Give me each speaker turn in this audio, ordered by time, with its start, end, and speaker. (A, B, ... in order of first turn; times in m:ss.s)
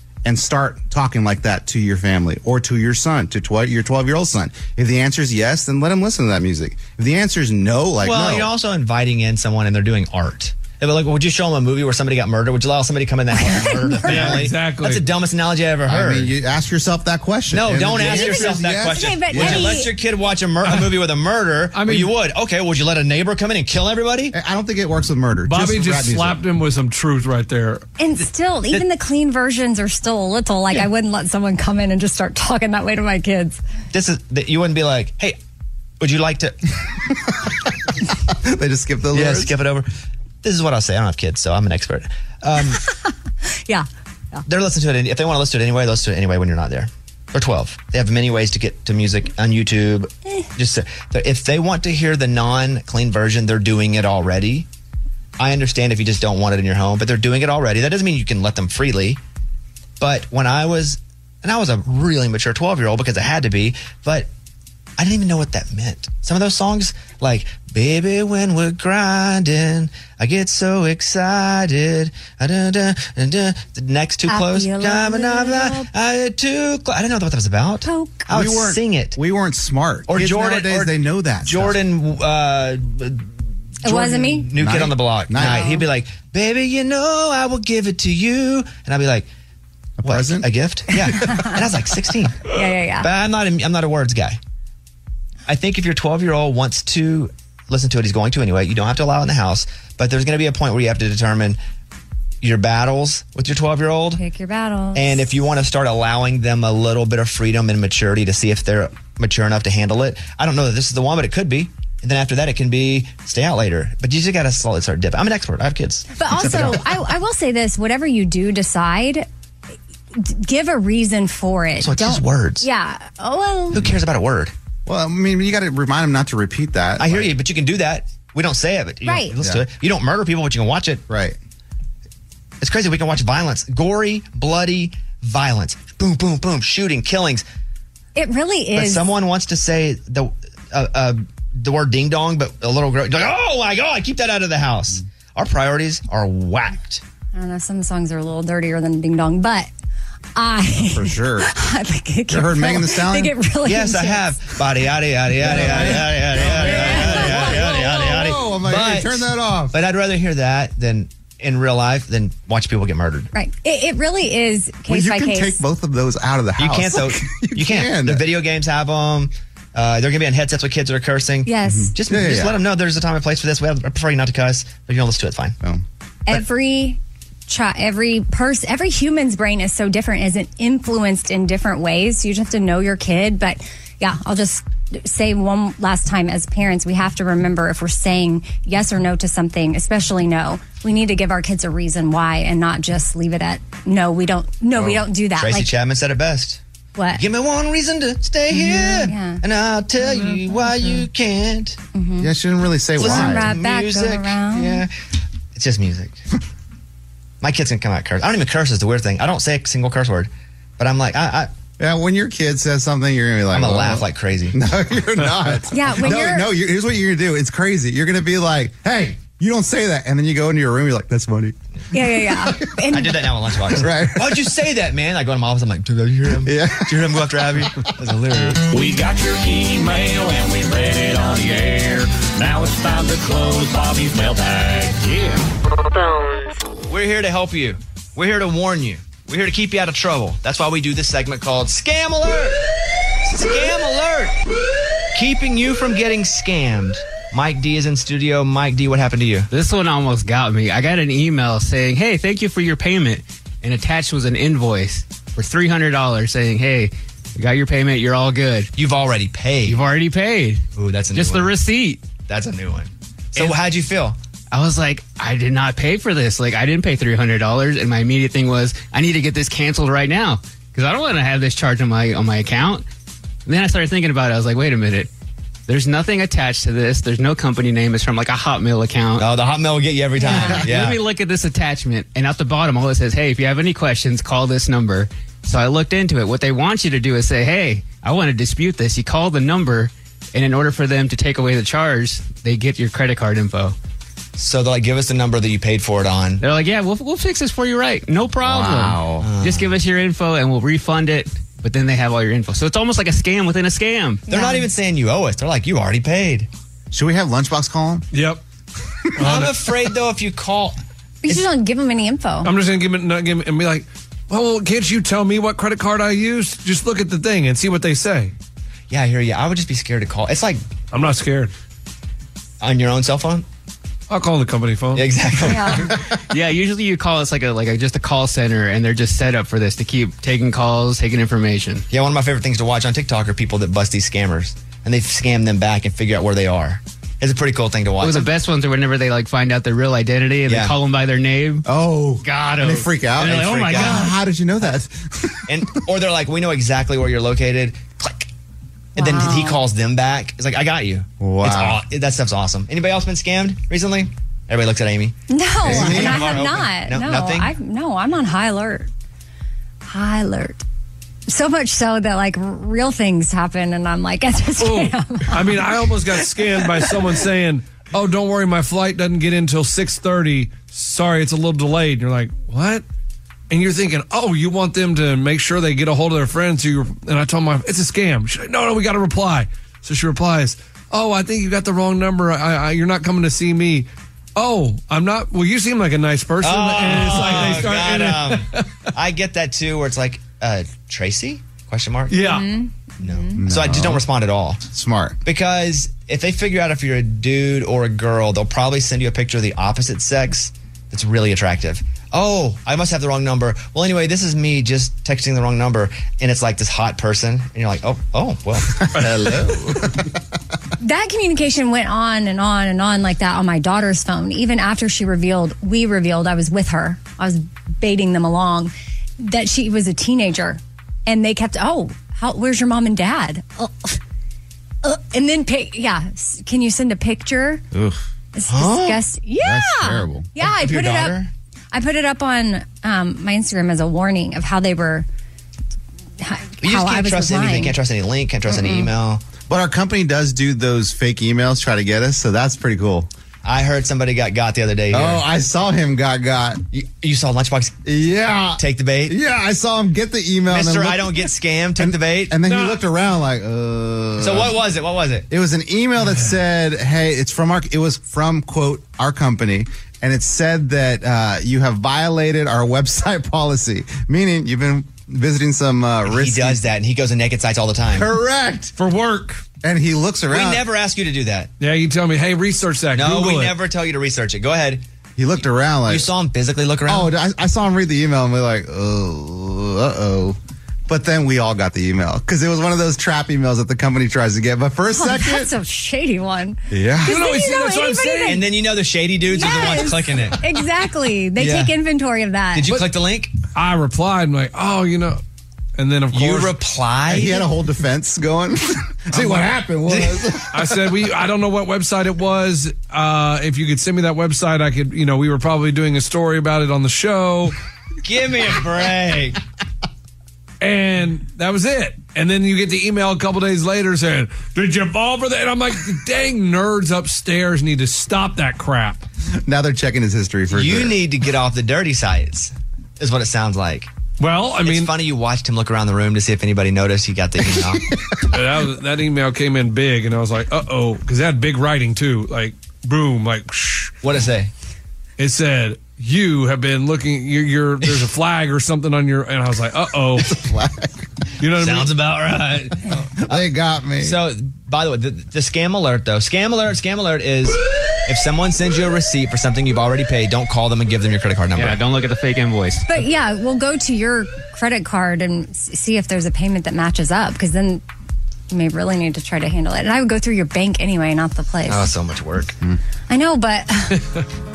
0:00.2-0:08.5 A
0:08.0-0:16.3 B
0:13.3-0:14.3 C
0:14.0-0:15.0 D
0:15.8-0:19.8 A
0:17.5-0:24.3 B
0:18.0-0:19.9 C
0:20.6-0:21.0 D
0:21.7-0:22.1 D
0:24.3-0:26.4 A
0:25.4-0:27.8 D
0:28.0-0:33.6 C
0:33.9-0:35.4 B
0:36.0-0:36.6 B
0:38.3-0:39.5 A
0:39.1-0:39.9 B
0:40.4-0:42.8 B
0:43.7-0:44.4 C
0:44.4-0:54.7 B
0:55.4-0:59.2 B
1:00.0-1:04.3 B
1:05.0-1:19.2 B
1:14.3-1:15.9 C
1:17.8-1:18.3 C
1:18.3-1:21.8 A
1:20.1-1:23.3 B
1:23.8-1:24.5 C
1:23.8-1:29.3 B
1:24.5-1:25.8 A
1:25.4-1:25.8 C
1:30.0-1:30.5 A
1:30.0-1:34.4 B
1:31.2-1:31.5 C
1:32.5-1:33.1 C
1:35.5-1:41.6 B
1:42.4-1:44.2 B
1:44.2-1:45.2 C
1:44.9-1:56.9 B
1:56.1-1:59.2 C
1:56.4-1:56.8 A
2:00.1-2:03.9 C
2:01.8-2:02.7 B
2:03.7-2:04.5 B
2:04.8-2:07.3 A
2:07.0-2:11.0 B
2:09.0-2:09.3 C
2:11.1-2:11.4 A
2:12.6-2:17.4 B
2:18.1-2:19.1 C
2:18.7-2:27.0 B
2:27.3-2:29.7 C
2:30.4-2:34.4 C
2:30.8-2:31.5 A
2:32.3-2:33.3 A
2:33.6-2:43.3 B
2:35.4-2:39.7 A
2:35.5-2:38.2 C
2:43.3-2:45.6 C
2:44.9-2:48.2 A
2:46.6-2:55.6 B
2:51.4-2:51.9 C
2:51.6-2:52.6 A
2:55.6-2:56.4 A
2:56.3-3:15.7 C
3:14.8-3:16.6 B
3:17.0-3:17.2 C
3:17.2-3:21.8 B
3:18.5-3:19.4 C
3:21.9-3:22.3 C
3:22.2-3:23.5 A
3:22.9-3:24.8 C
3:23.0-3:24.9 B
3:25.5-3:26.2 B
3:27.4-3:31.5 B
3:31.8-3:41.6 A
3:33.5-3:34.6 B
3:35.7-3:36.5 C
3:41.9-3:43.2 C
3:42.2-3:42.8 A
3:42.9-3:48.7 B
3:43.7-3:44.6 A
3:46.4-3:47.0 A
3:48.7-3:55.4 E
3:56.9-4:02.6 B
4:03.2-4:04.4 B
4:05.1-4:09.5 B
4:09.5-4:18.7 F
4:18.8-4:19.8 B
4:19.6-4:20.6 F
4:20.7-4:21.5 B
4:21.1-4:22.0 F
4:22.2-4:24.2 B
4:24.5-4:32.8 F
4:33.4-4:35.1 F
4:35.7-4:39.3 F
4:39.2-4:41.0 B
4:40.2-4:53.7 F
4:40.2-4:40.5 C
4:54.4-4:56.4 B
4:56.4-5:04.2 F
4:58.4-4:59.3 A
4:59.2-4:59.7 B
5:04.3-5:04.7 C
5:04.3-5:06.5 B
5:06.9-5:08.1 A
5:08.1-5:08.4 D
5:09.2-5:09.5 D
5:09.2-5:11.4 B
5:11.2-5:12.5 C
5:12.4-5:18.3 D
5:18.9-5:20.6 B
5:20.9-5:21.5 D
5:22.6-5:23.4 B
5:24.1-5:25.1 D
5:24.9-5:25.9 B
5:25.4-5:25.8 C
5:26.3-5:31.8 F
5:31.9-5:38.3 B
5:38.0-5:41.6 F
5:40.5-5:40.7 B
5:41.6-5:45.6 A
5:42.2-5:44.2 F
5:43.7-5:44.1 B
5:45.5-5:48.3 B
5:49.0-5:49.6 C
5:49.0-5:57.5 B
5:51.2-5:51.8 A
5:55.3-5:58.9 C
5:55.6-5:56.4 A
5:59.9-6:00.6 C
6:01.3-6:05.4 C
6:04.6-6:12.8 D
6:13.5-6:28.6 D
6:26.4-6:32.2 B
6:32.1-6:32.5 D
6:32.2-6:33.3 C
6:33.0-6:34.6 B
6:33.3-6:34.0 A
6:34.7-6:35.2 A
6:35.2-6:49.4 B
6:48.8-6:50.0 A
6:50.8-7:04.0 C
7:04.8-7:07.6 C
7:07.7-7:08.0 A
7:08.3-7:11.2 C
7:08.5-7:09.0 B
7:09.4-7:10.3 A
7:10.4-7:11.3 B
7:11.7-7:15.1 C
7:16.2-7:17.8 C
7:16.6-7:19.2 B
7:18.5-7:18.9 C
7:19.5-7:23.1 A
7:23.4-7:25.2 B
7:24.9-7:26.6 A
7:26.7-7:27.8 B
7:27.8-7:34.6 A
7:28.6-7:29.2 B
7:30.5-7:32.4 B
7:32.4-7:32.8 D
7:34.2-7:35.3 B
7:35.3-7:46.6 A
7:46.0-7:48.1 B
7:47.9-7:48.7 A
7:48.8-7:49.4 D
7:49.6-7:50.6 A
7:50.3-7:51.5 B
7:51.6-7:53.6 D
7:52.9-7:54.8 B
7:55.2-7:56.1 A
7:55.9-7:57.1 B
7:56.9-8:00.4 A
8:00.9-8:05.5 A
8:04.9-8:08.4 C
8:06.7-8:07.2 A
8:07.0-8:08.5 D
8:08.2-8:10.4 B
8:09.3-8:12.7 C
8:11.4-8:11.7 B
8:12.5-8:13.3 B
8:13.5-8:15.2 D
8:15.8-8:16.5 D
8:16.1-8:17.4 B
8:17.1-8:20.9 A
8:19.1-8:19.6 D
8:19.9-8:20.2 B
8:20.5-8:27.6 D
8:28.0-8:29.4 B
8:30.6-8:39.0 D
8:39.4-8:41.0 A
8:40.5-8:43.9 B
8:44.2-8:44.9 D
8:44.6-8:47.9 B
8:47.7-8:48.0 A
8:48.3-8:53.9 D
8:54.0-8:54.5 B
8:55.2-9:00.4 D
9:00.2-9:01.0 A
9:01.4-9:01.9 D
9:01.5-9:03.4 B
9:03.3-9:04.2 A
9:04.0-9:11.8 B
9:11.5-9:12.9 F
9:12.9-9:17.8 C
9:18.5-9:21.9 C
9:21.7-9:22.6 B
9:23.1-9:24.0 C